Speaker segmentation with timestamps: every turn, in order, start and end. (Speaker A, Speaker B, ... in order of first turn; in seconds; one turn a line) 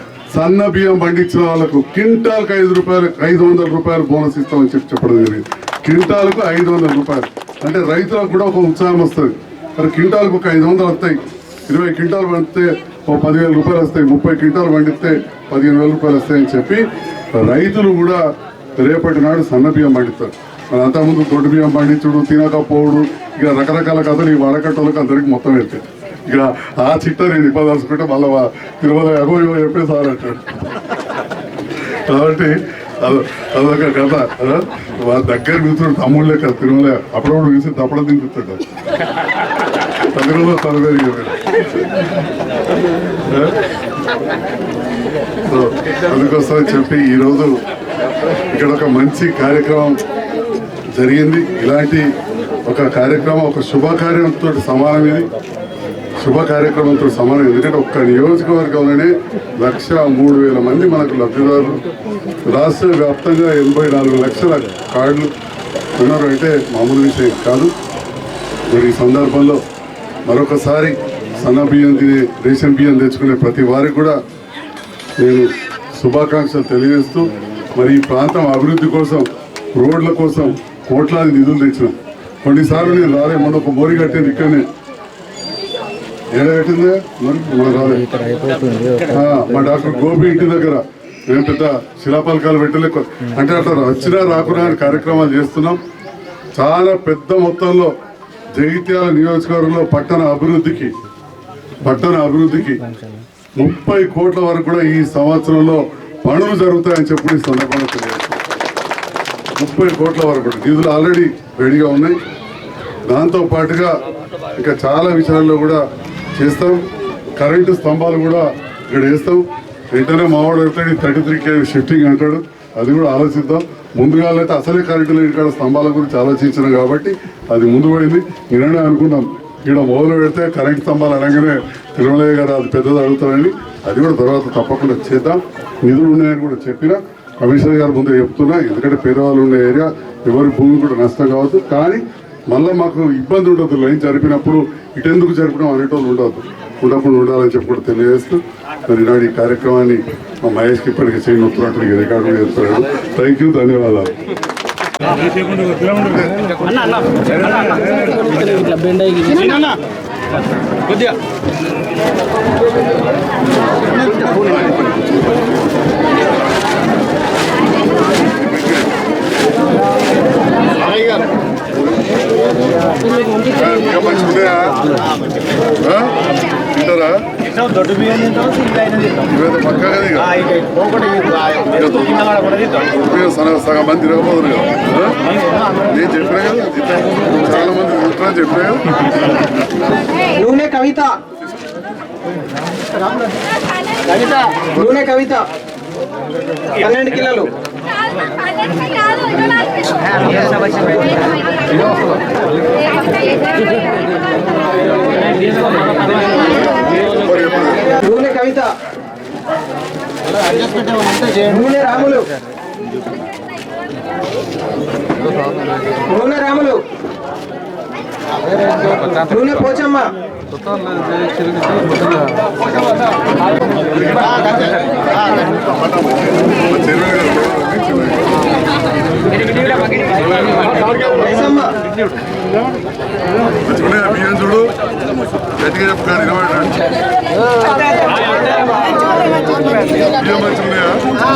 Speaker A: 0.3-11.2
Speaker A: 11.7-16.8
Speaker A: 17.3-18.2
Speaker A: 18.8-30.4
Speaker A: 32.1-38.6
Speaker A: 40.1-41.4
Speaker A: 43.3-43.5
Speaker A: 45.5-47.5
Speaker A: 48.5-50.0
Speaker A: 50.9-52.0
Speaker A: 52.6-55.3
Speaker A: 56.2-61.8
Speaker A: 62.5-65.3
Speaker A: 66.0-67.7
Speaker A: 68.7-69.6
Speaker A: 70.3-74.2
Speaker A: 75.2-84.7
Speaker A: 86.3-88.0
Speaker A: 89.0-95.8
Speaker A: 96.5-97.9
Speaker A: 98.5-100.9
Speaker A: 101.8-102.8
Speaker A: 103.6-108.4
Speaker A: 109.6-112.2
Speaker A: 113.1-113.9
Speaker A: 114.6-115.8
Speaker A: 116.4-116.8
Speaker A: 117.4-154.1
Speaker A: 155.5-156.5
Speaker A: 157.5-158.3
Speaker A: 163.9-165.5
Speaker A: 168.4-168.9
Speaker A: 171.8-172.1
Speaker A: 173.5-174.9
Speaker A: 175.8-176.1
Speaker A: 176.7-177.2
Speaker B: 177.9-178.8
Speaker A: 179.2-180.3
Speaker B: 180.9-181.6
Speaker A: 181.6-185.2
Speaker A: 185.9-189.3
Speaker C: 190.3-191.1
Speaker C: 194.7-195.4
Speaker C: 196.8-197.5
Speaker B: 200.4-201.1
Speaker A: 206.4-207.9
Speaker C: 208.0-208.7
Speaker C: 211.0-212.2
Speaker C: 216.1-216.8
Speaker C: 219.3-220.0
Speaker A: 223.9-228.3
Speaker A: 229.9-231.2
Speaker C: 231.3-231.7
Speaker A: 233.6-234.7
Speaker A: 235.6-236.8
Speaker A: 240.1-241.0